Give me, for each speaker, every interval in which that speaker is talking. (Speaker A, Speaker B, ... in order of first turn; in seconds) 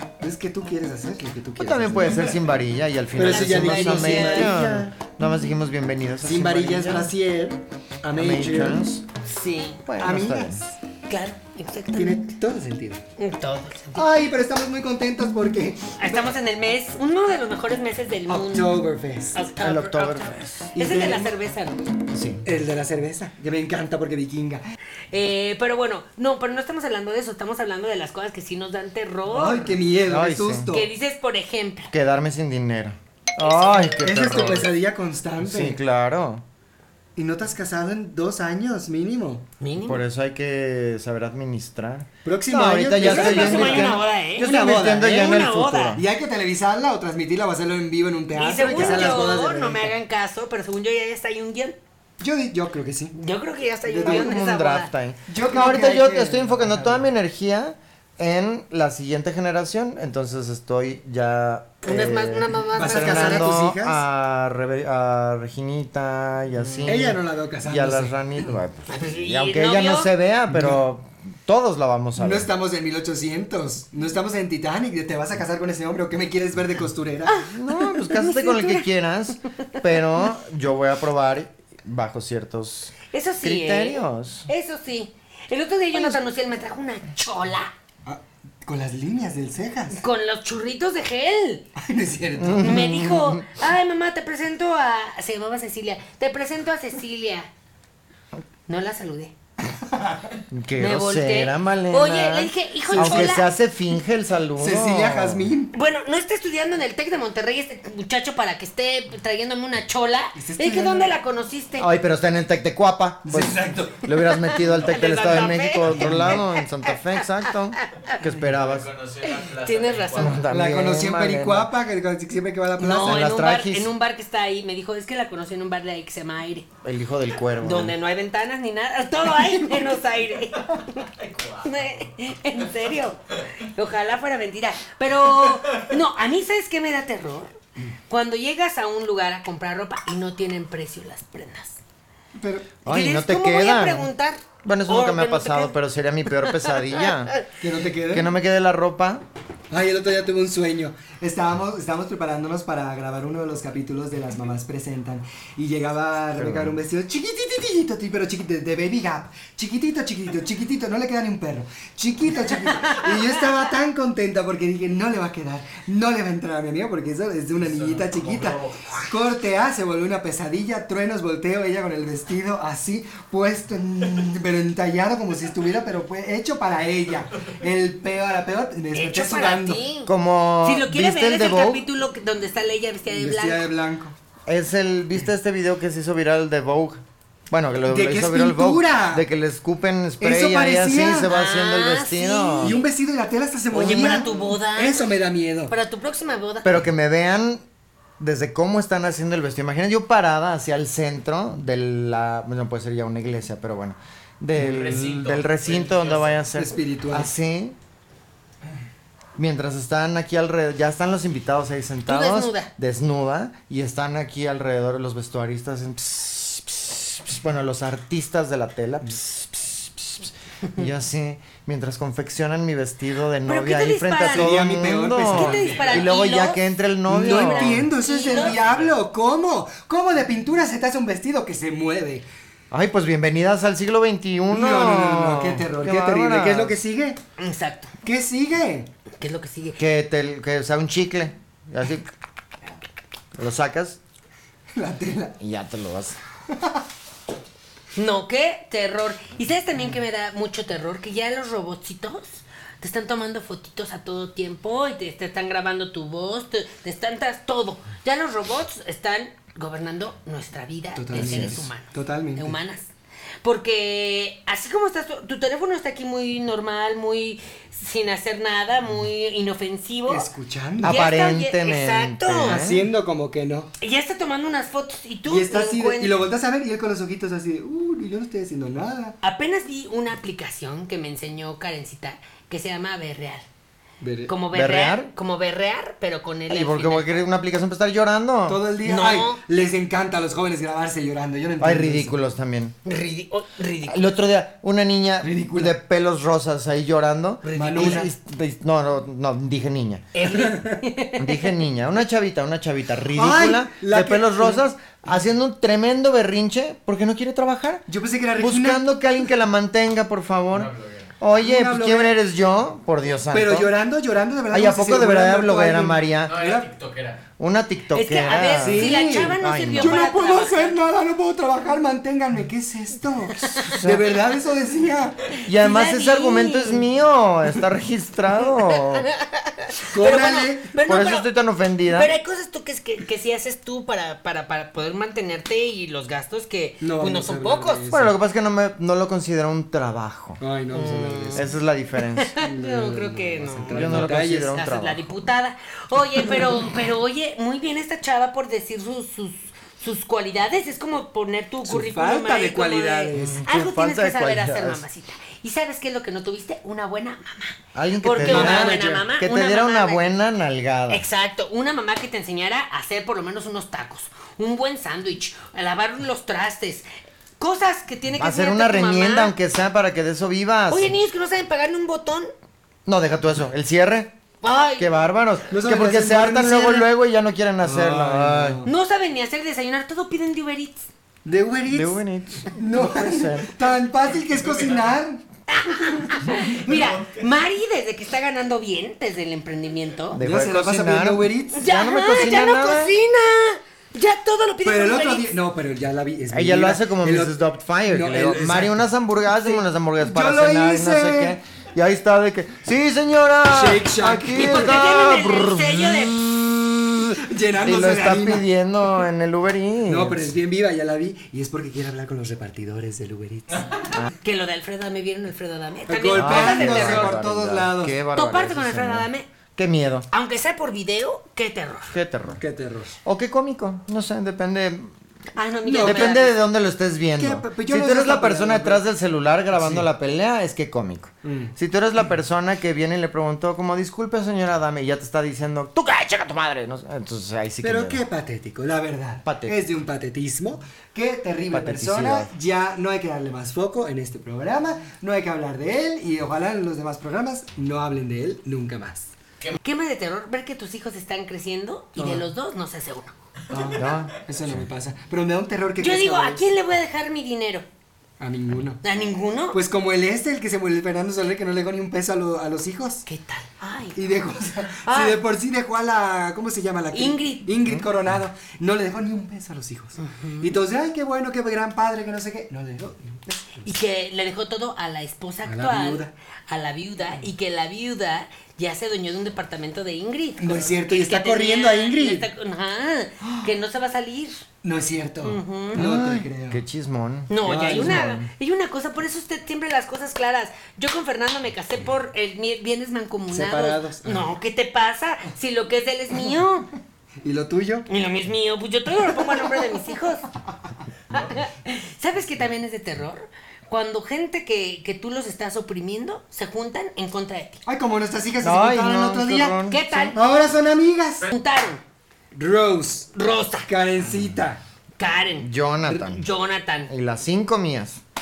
Speaker A: 0.2-2.4, 3.1-5.0, 6.2-8.8, 10.0-10.8, 11.9-13.0, 13.9-16.3, 18.3-19.4, 20.7-21.4, 22.4-24.6, 29.3-30.9, 34.0-35.8, 37.2-39.5, 42.2-49.9, 52.2-53.1, 53.9-54.4, 55.3-57.1, 62.7-64.0, 66.8-68.6, 70.5-70.8, 72.2-77.5, 88.0-90.0, 91.8-92.8, 99.9-100.3, 102.9-103.3, 104.6-105.7, 110.3-111.1, 113.2-114.1, 116.0-116.4, 120.5-123.3, 142.3-142.8, 147.6-148.3, 149.7-179.8, 183.1-184.1, 187.8-189.2, 190.2-191.3, 192.6-195.7, 206.5-207.3, 224.3-226.1, 227.1-232.2, 234.5-237.2, 238.0-238.9, 244.8-245.3, 246.5-246.8, 260.9-262.6, 270.1-271.0, 272.5-273.7, 275.2-279.2, 284.0-284.3, 288.5-292.1, 295.2-295.8, 297.6-298.1, 300.3-300.8, 303.1-304.6, 307.9-309.0, 311.4-312.1, 313.3-316.7, 318.6-325.2, 329.9-330.7, 336.8-338.1, 340.4-341.5, 342.4-344.6, 351.6-353.4, 358.2-359.1, 375.5-376.9, 377.6-378.7, 381.2-385.2, 390.2-391.7, 394.6-398.8, 399.4-401.4, 403.5-404.8, 407.2-408.5, 409.9-413.8, 415.9-418.0, 422.3-423.0, 425.6-426.2, 427.2-428.8, 429.5-429.9, 431.2-431.5, 437.6-449.1, 452.0-452.2, 453.5-456.4, 458.2-458.8, 459.5-463.1, 464.0-473.6, 475.4-476.1, 480.4-482.2, 484.6-486.6, 487.4-488.1, 493.3-494.3, 497.2-497.9, 507.6-509.6, 510.1-511.3, 512.3-513.1, 513.6-514.6
Speaker B: 1.6-7.1, 8.1-9.1, 9.9-10.6, 19.6-20.5, 22.1-22.4, 30.1-30.7, 31.9-34.7, 35.4-36.4, 39.8-46.0, 48.7-49.3, 54.0-72.5, 77.5-84.5, 92.4-93.5, 100.5-105.4, 111.8-118.9, 120.2-121.7, 123.0-123.9, 126.8-127.9, 142.8-144.1, 144.6-147.3, 148.1-149.2, 156.3-156.8, 180.1-181.8, 184.5-192.8, 196.6-197.6, 198.2-207.8, 209.3-227.9, 232.7-236.8, 239.8-242.1, 243.3-244.0, 245.4-246.2, 261.1-261.6, 270.8-272.9, 284.5-285.1, 286.5-288.6, 291.6-292.8, 293.9-300.1, 301.2-307.8, 308.4-313.7, 314.5-316.4, 317.4-320.0, 323.6-324.0, 325.5-329.1, 330.8-332.1, 337.9-340.4, 341.4-342.3, 343.7-345.1, 353.1-354.8, 357.8-361.0, 368.2-370.9, 372.9-374.1, 374.8-378.6, 381.7-383.5, 390.1-392.9, 396.3-410.3, 416.1-420.1, 421.9-422.4, 423.1-424.9, 425.8-438.0, 439.2-439.6, 441.5-442.3, 453.7-454.6, 485.8-488.3, 508.4-510.1, 515.4-516.2, 516.9-518.0
Speaker C: 3.2-4.5, 9.2-9.8, 11.1-12.3, 13.2-14.2, 16.0-18.8, 19.3-21.8, 25.1-29.8, 30.7-31.9, 33.4-34.0, 39.6-40.0, 43.0-46.0, 48.4-51.8, 53.1-54.9, 61.9-63.5, 66.6-66.9, 68.9-70.1, 78.1-78.8, 83.1-87.7, 89.9-91.7, 92.6-97.5, 98.7-99.3, 100.8-103.5, 105.7-111.9, 114.3-117.0, 117.8-118.2, 119.3-120.5, 122.8-126.7, 127.6-137.5, 138.1-141.8, 142.9-145.7, 178.9-180.1, 180.6-183.7, 191.2-192.8, 193.7-195.0, 195.7-196.8, 212.1-212.7, 223.4-224.5, 225.3-226.6, 227.3-228.6, 237.4-237.9, 239.2-239.8, 248.0-262.9, 263.4-270.3, 270.8-272.6, 273.8-276.1, 279.2-283.4, 284.3-287.1, 288.9-289.4, 292.9-294.1, 297.4-298.1, 300.1-301.5, 317.9-320.8, 323.4-323.8, 325.6-326.9, 329.0-331.3, 331.9-337.8, 340.7-341.4, 342.1-360.1, 360.9-366.9, 367.4-369.3, 370.7-372.3, 374.4-374.9, 378.7-380.9, 385.5-390.2, 391.5-395.4, 404.3-406.2, 414.2-417.2, 418.1-419.3, 420.1-422.0, 425.4-426.3, 449.6-453.1, 455.8-457.6, 458.8-459.6, 463.1-464.0, 464.8-465.2, 466.9-467.5, 470.0-470.6, 473.6-484.4, 485.2-485.8, 487.3-496.7, 497.9-500.2, 501.1-507.6, 509.7-510.2, 511.3-511.8, 513.1-513.7, 515.0-515.5, 516.0-516.9
Speaker D: 118.4-120.4, 131.3-131.6, 167.6-168.9, 204.6-206.4, 228.3-228.8, 310.5-311.1, 316.2-317.2